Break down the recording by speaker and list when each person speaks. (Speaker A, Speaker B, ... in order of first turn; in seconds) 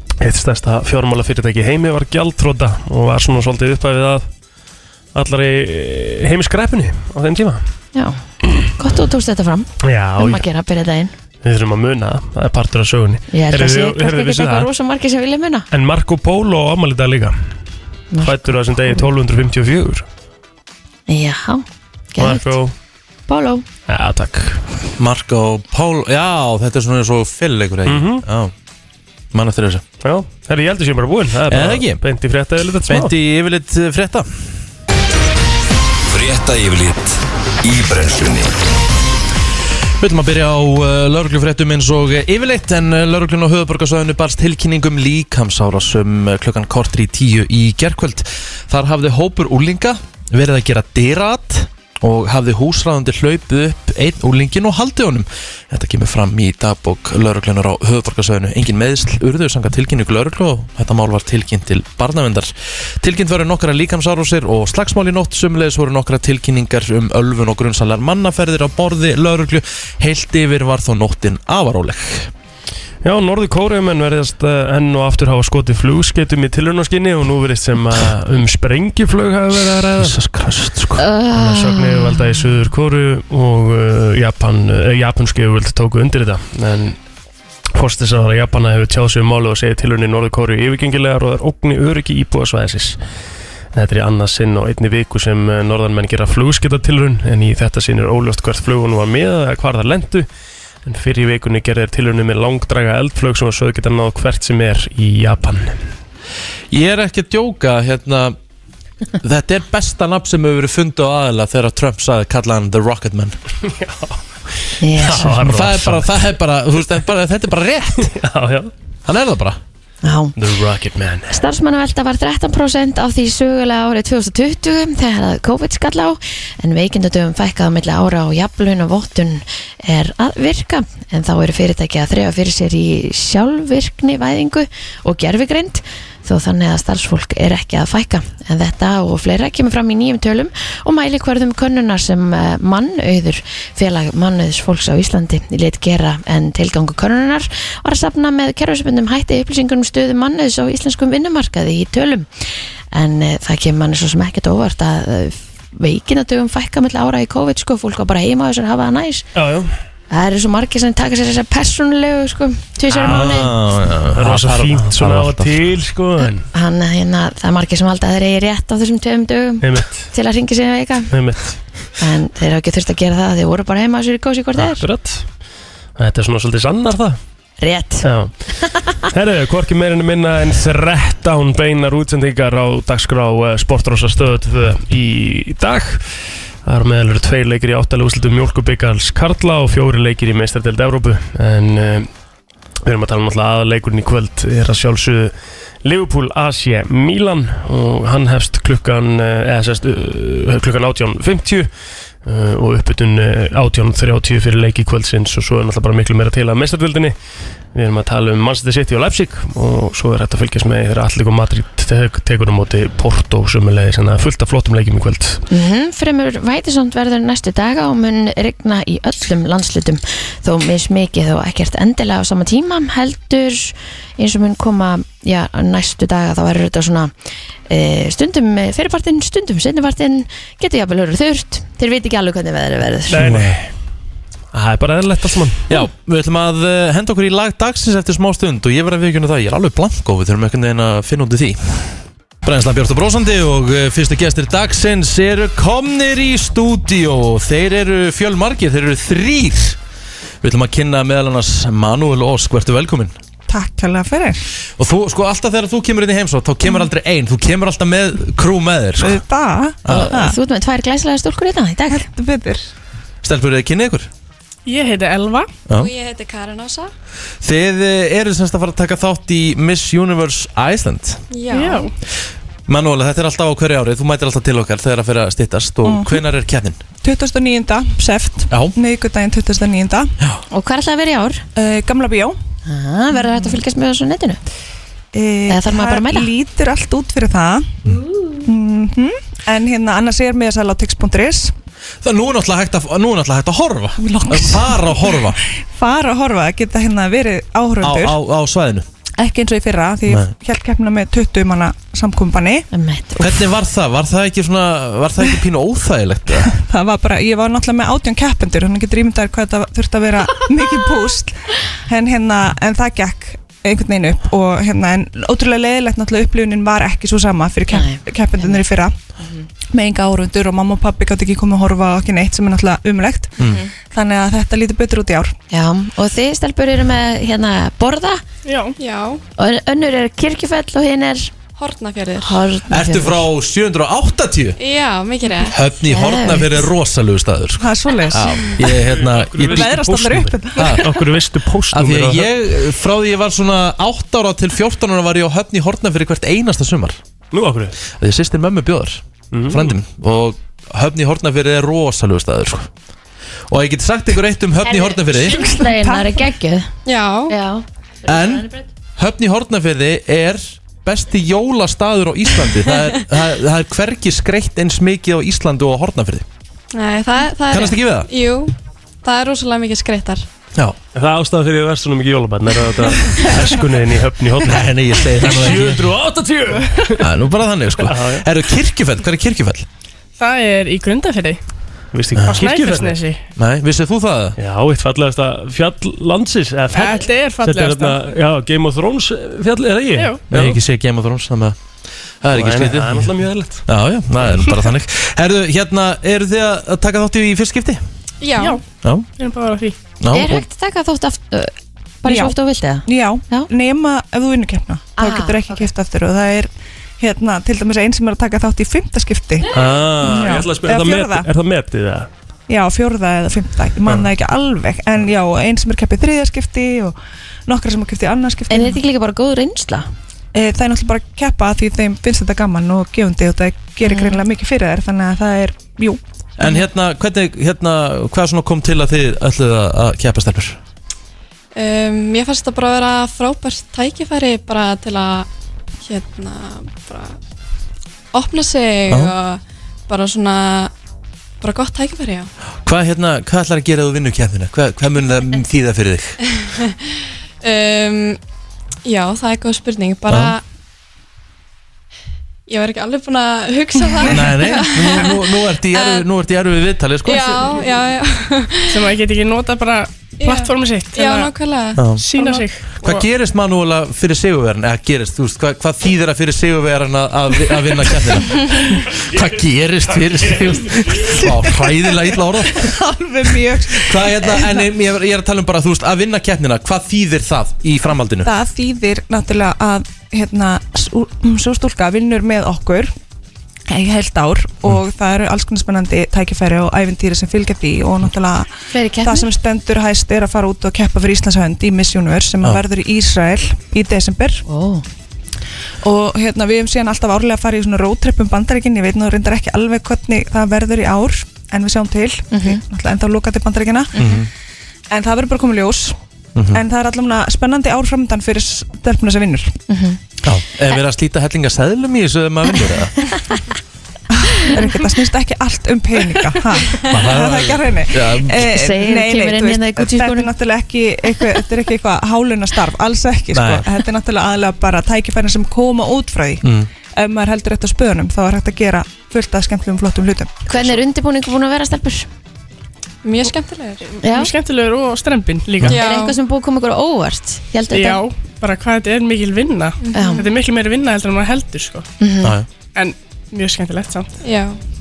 Speaker A: 0.2-4.3, 5.1-7.6, 9.8-10.4, 11.4-14.7, 15.7-17.3, 18.2-20.1, 22.2-22.7, 23.9-24.6, 27.9-28.2, 30.0-33.1, 73.0-80.2, 81.3-87.0, 87.7-93.0, 93.7-100.3, 100.8-105.8, 113.6-116.2, 118.0-118.7, 120.4-121.4, 159.3-159.7, 162.9-163.5, 164.1-166.4, 169.6-170.1, 171.1-171.6, 174.6-175.2, 176.0-177.2, 178.0-178.3, 179.1-186.0, 186.6-192.1, 192.8-201.7, 202.2-207.1, 207.7-215.4, 233.1-233.7, 234.5-235.6, 338.7-342.3, 347.3-347.7, 349.3-349.7, 370.9-377.0, 377.8-378.2, 381.9-383.0, 384.4-390.6, 392.3-393.6, 409.5-412.1
Speaker B: 8.8-11.1, 13.3-15.7, 18.1-19.0, 21.1-22.5, 23.3-23.6, 81.0-82.4, 114.8-115.5, 120.0-120.3, 121.3-152.3, 152.9-159.3, 160.1-163.5, 166.5-171.1, 172.0-174.8, 177.6-178.0, 178.6-178.9, 215.5-227.1, 227.7-233.3, 259.9-262.1, 280.5-281.4, 282.6-284.4, 285.5-286.3, 288.1-288.4, 302.7-303.4, 317.7-318.6, 323.4-323.7, 325.5-328.2, 329.4-331.3, 332.2-333.2, 335.8-336.7, 354.6-356.7, 357.3-358.6, 400.1-403.5, 405.0-405.7, 418.5-419.9, 423.8-424.2, 488.7-489.3, 494.5-494.8, 502.3-502.6, 509.7-510.0, 518.5-520.3, 530.5-532.1, 534.0-534.3, 535.7-538.0, 539.9-540.2, 542.0-542.4
Speaker C: 25.0-28.5, 29.3-29.8, 31.5-32.0, 32.9-34.3, 40.0-72.3, 80.0-81.0, 106.7-108.3, 109.2-113.4, 115.4-118.1, 119.0-119.6, 163.0-165.7, 233.2-233.6, 235.7-249.8, 250.4-253.1, 254.8-259.2, 259.8-260.1, 263.2-264.1, 267.4-271.2, 272.7-276.8, 292.0-295.4, 297.8-298.9, 303.2-306.5, 332.7-334.6, 335.5-339.7, 340.6-340.9, 341.7-347.0, 347.9-352.7, 353.5-355.5, 358.1-366.2, 367.5-368.1, 374.4-375.9, 377.0-379.6, 382.2-382.4, 383.4-384.4, 390.3-391.6, 392.2-393.1, 393.7-397.8, 400.0-400.4, 426.4-430.6, 442.6-446.2, 450.1-450.4, 454.0-457.6, 461.8-462.0, 462.8-472.7, 473.8-478.3, 504.0-504.3, 506.4-506.6, 510.2-513.0, 516.9-518.5, 523.3-523.6, 526.4-526.7
Speaker D: 36.1-38.5
Speaker E: 253.5-254.4, 259.0-260.4, 261.9-262.6, 275.9-276.2, 277.0-280.1, 281.6-282.4, 285.1-287.8, 288.4-291.5, 294.0-298.1, 299.2-302.7, 306.5-318.9, 319.7-325.3, 337.6-338.6, 339.5-341.0, 355.4-356.2, 402.1-402.3, 402.9-409.5, 410.0-411.3, 412.5-418.8, 420.3-426.0, 453.9-454.3, 471.2-471.7, 472.6-474.6, 478.2-482.9, 483.7-488.5, 489.0-494.4, 495.8-503.9, 504.9-506.0, 506.5-509.6, 514.1-530.7
Speaker F: 264.6-265.5, 271.5-271.9, 328.4-328.8, 380.2-381.4, 382.2-383.2, 386.7-388.0, 389.9-390.2, 398.4-398.6, 399.2-399.8, 458.7-461.3, 461.9-463.1, 534.0-535.8, 537.7-541.9, 542.7-544.1
Speaker G: 265.7-266.9, 271.3-271.9, 328.8-329.2, 331.6-332.4, 334.6-335.6, 356.9-357.4, 366.7-370.2, 398.2-398.6, 431.5-435.3, 435.8-437.1, 438.1-440.7, 441.4-442.3, 446.4-446.7, 447.4-448.2, 448.8-450.4, 452.5-456.0, 457.0-458.9, 460.2-462.5, 533.0-533.8, 535.6-536.1, 539.9-540.3, 544.2-544.6